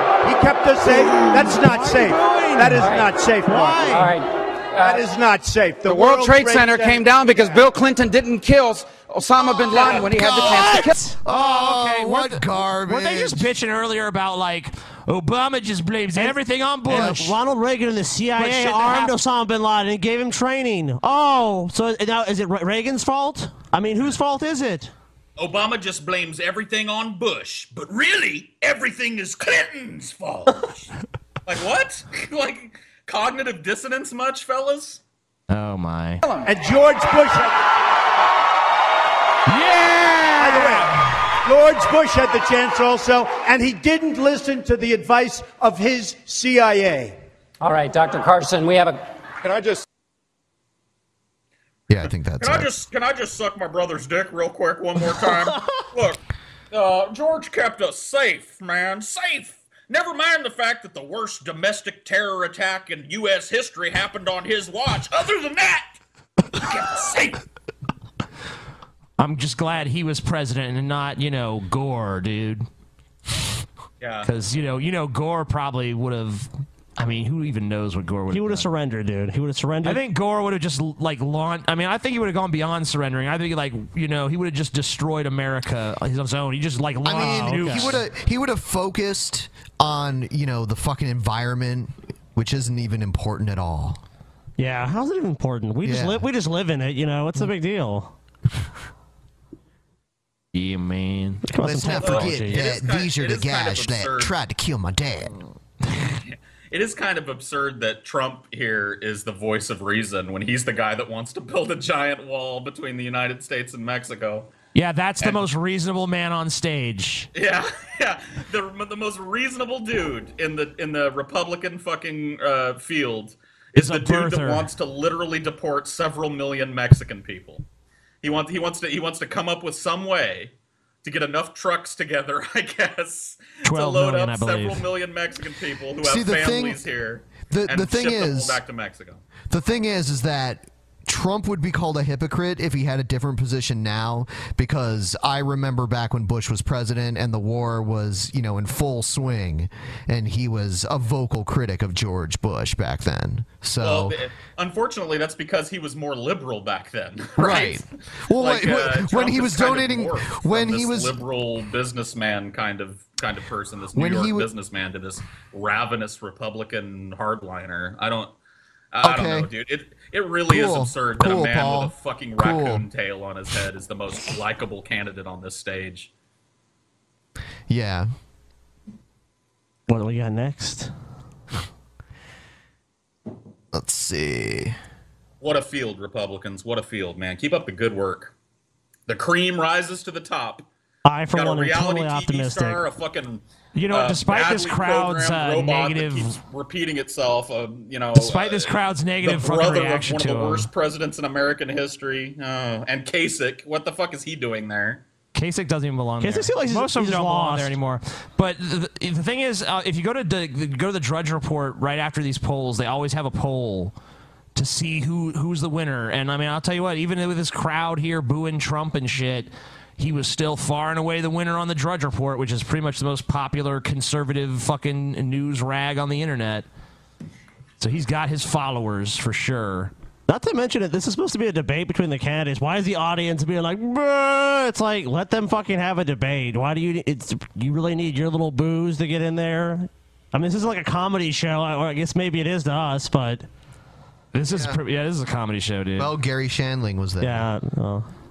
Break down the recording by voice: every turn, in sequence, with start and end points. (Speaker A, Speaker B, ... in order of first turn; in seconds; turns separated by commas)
Speaker A: 0.2-3.9, Speaker B: 1.1-4.1, Speaker C: 2.8-3.1, Speaker C: 3.9-5.0, Speaker A: 4.8-7.5, Speaker D: 5.8-10.9, Speaker E: 10.1-13.5, Speaker F: 10.3-17.4, Speaker B: 16.1-24.9, Speaker E: 16.9-17.2, Speaker F: 18.4-19.1, Speaker G: 25.4-30.9, Speaker G: 31.4-35.0, Speaker F: 35.5-36.2, Speaker D: 36.2-36.6, Speaker A: 36.5-37.6, Speaker F: 39.5-40.9, Speaker A: 40.4-47.2, Speaker C: 47.6-49.0, Speaker E: 51.9-52.7, Speaker G: 52.4-66.0, Speaker G: 66.5-67.4, Speaker F: 69.2-72.7, Speaker G: 74.0-74.3, Speaker F: 74.2-78.7, Speaker B: 78.3-80.0, Speaker F: 79.8-88.0, Speaker E: 87.0-94.0, Speaker B: 87.2-88.0, Speaker B: 94.6-98.1, Speaker E: 95.8-96.2, Speaker F: 100.5-101.5, Speaker B: 101.4-102.7, Speaker E: 101.6-105.3, Speaker G: 102.0-104.3, Speaker G: 106.3-114.5, Speaker F: 114.7-117.3, Speaker G: 115.2-115.5, Speaker G: 117.3-127.6, Speaker F: 123.8-124.7, Speaker G: 128.2-130.5, Speaker G: 131.0-139.2, Speaker F: 133.6-134.8, Speaker E: 136.0-136.8, Speaker E: 137.5-138.6, Speaker E: 139.5-154.1, Speaker G: 153.8-168.3, Speaker E: 157.4-161.2, Speaker E: 163.9-164.5, Speaker G: 168.9-176.1, Speaker E: 169.0-169.5, Speaker E: 170.5-172.8, Speaker E: 177.7-178.1, Speaker B: 179.9-180.9, Speaker E: 183.7-184.8, Speaker G: 185.4-188.3, Speaker G: 189.1-190.7, Speaker B: 191.1-192.8, Speaker G: 191.3-205.0, Speaker F: 193.7-196.4, Speaker F: 198.1-200.7, Speaker F: 205.3-213.9, Speaker B: 206.2-207.8, Speaker F: 214.5-226.7, Speaker F: 227.8-229.9, Speaker B: 230.3-243.4, Speaker F: 244.3-246.1, Speaker E: 244.5-244.8, Speaker E: 245.9-247.5, Speaker B: 247.2-248.1